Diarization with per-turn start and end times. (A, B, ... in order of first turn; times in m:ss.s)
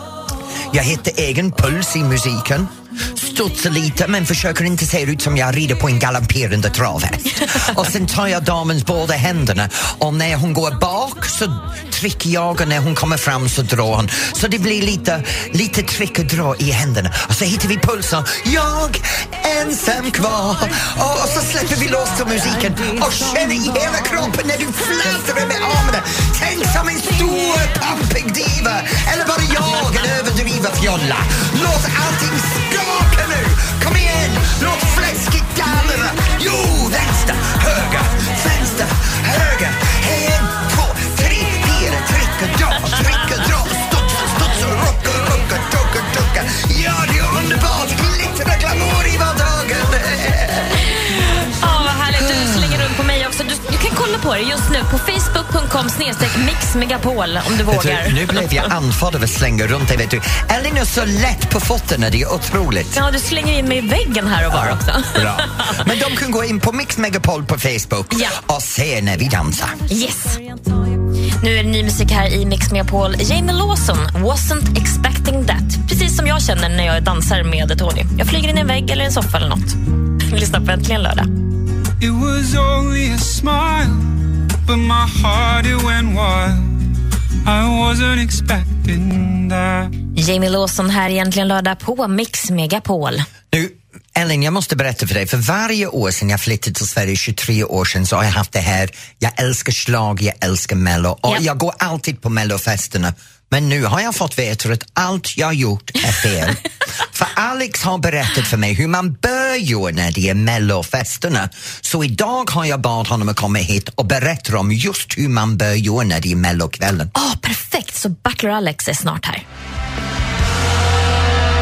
0:00.7-0:50.8 A
0:51.0-0:58.5 B
0:52.2-0:52.9 A
0:57.6-1:03.0 A
1:03.0-1:05.8 B
1:04.5-1:09.8 A
1:08.1-1:08.4 B
1:09.9-1:10.4 B
1:11.4-1:21.3 B
1:22.0-1:23.9 C
1:24.8-1:26.5 C
1:27.5-1:29.6 C
1:30.2-1:33.3 B
1:33.5-1:57.1 A
1:57.1-1:59.4 B